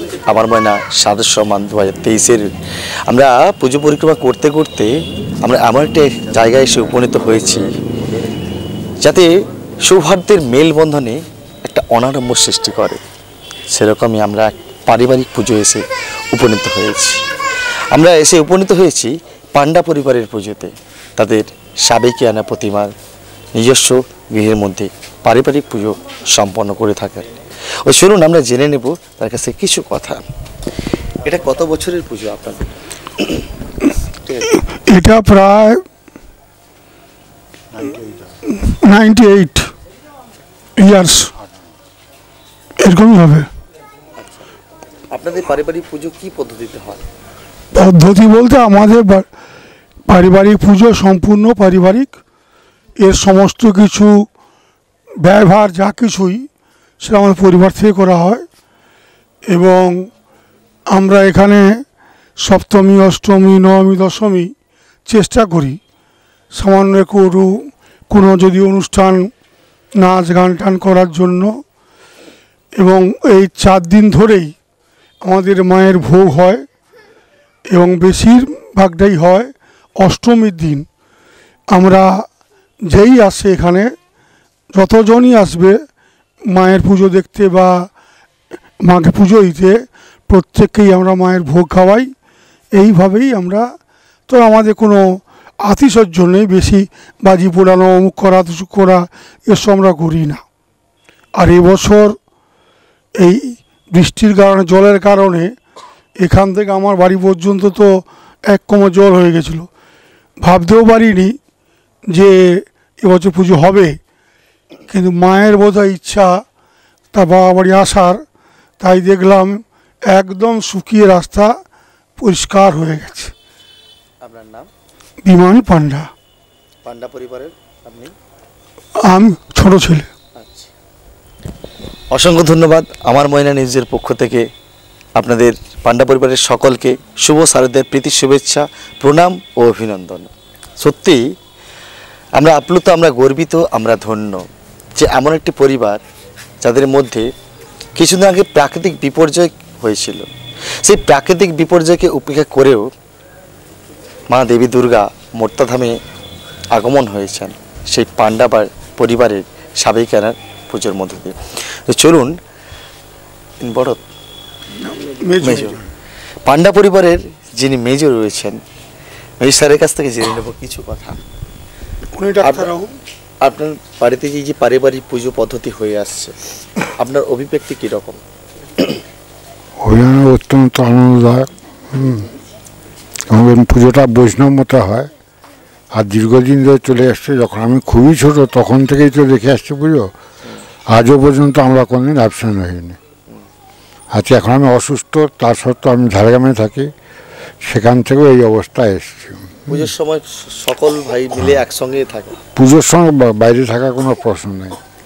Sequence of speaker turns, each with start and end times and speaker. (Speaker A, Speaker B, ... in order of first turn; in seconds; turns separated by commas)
Speaker A: 0.3-2.5, Speaker A: 3.1-4.9, Speaker A: 5.4-7.7, Speaker A: 9.0-9.3, Speaker A: 9.8-13.0, Speaker A: 13.7-17.2, Speaker A: 17.9-22.9, Speaker A: 23.6-27.3, Speaker A: 27.9-30.2, Speaker A: 31.2-32.6, Speaker B: 34.8-35.8, Speaker B: 38.5-39.7, Speaker B: 40.8-41.3, Speaker B: 42.8-43.5, Speaker A: 45.1-47.0, Speaker B: 47.7-49.3, Speaker B: 50.1-52.1, Speaker B: 53.0-54.3, Speaker B: 55.2-56.5, Speaker B: 57.0-58.5, Speaker B: 59.5-60.1, Speaker B: 60.9-61.8, Speaker B: 62.4-64.5, Speaker B: 65.1-65.8, Speaker B: 66.5-69.3, Speaker B: 70.0-71.6, Speaker B: 72.8-74.5, Speaker B: 75.2-76.6, Speaker B: 77.7-80.9, Speaker B: 81.7-82.3, Speaker B: 82.9-83.9, Speaker B: 84.7-85.8, Speaker B: 86.5-87.9, Speaker B: 88.8-92.1, Speaker B: 92.7-93.7, Speaker B: 94.3-100.4, Speaker B: 101.3-102.2, Speaker B: 103.2-105.5, Speaker B: 106.2-109.7, Speaker B: 110.4-111.4, Speaker B: 112.1-114.0, Speaker B: 114.9-116.4, Speaker B: 117.1-118.2, Speaker B: 118.8-121.5, Speaker B: 122.2-123.3, Speaker A: 124.2-124.7, Speaker B: 125.2-126.1, Speaker A: 126.8-128.1, Speaker B: 129.1-130.1, Speaker A: 130.4-130.7, Speaker A: 132.1-134.4, Speaker A: 135.2-141.2, Speaker A: 142.4-144.4, Speaker A: 145.0-146.0, Speaker A: 146.6-147.3, Speaker A: 148.0-150.3, Speaker A: 150.8-152.9, Speaker A: 154.3-156.0, Speaker A: 156.7-161.4, Speaker A: 161.9-162.3, Speaker A: 163.6-164.0, Speaker B: 164.8-165.8, Speaker A: 165.4-165.8, Speaker A: 166.5-168.6, Speaker A: 169.4-171.2, Speaker B: 172.2-172.9, Speaker A: 172.4-172.8, Speaker A: 173.4-176.3, Speaker A: 177.0-178.2, Speaker C: 179.8-182.3, Speaker C: 183.3-185.1, Speaker C: 186.0-190.1, Speaker C: 190.9-193.0, Speaker C: 194.1-196.9, Speaker C: 197.6-199.9, Speaker A: 199.7-202.4, Speaker C: 202.6-204.8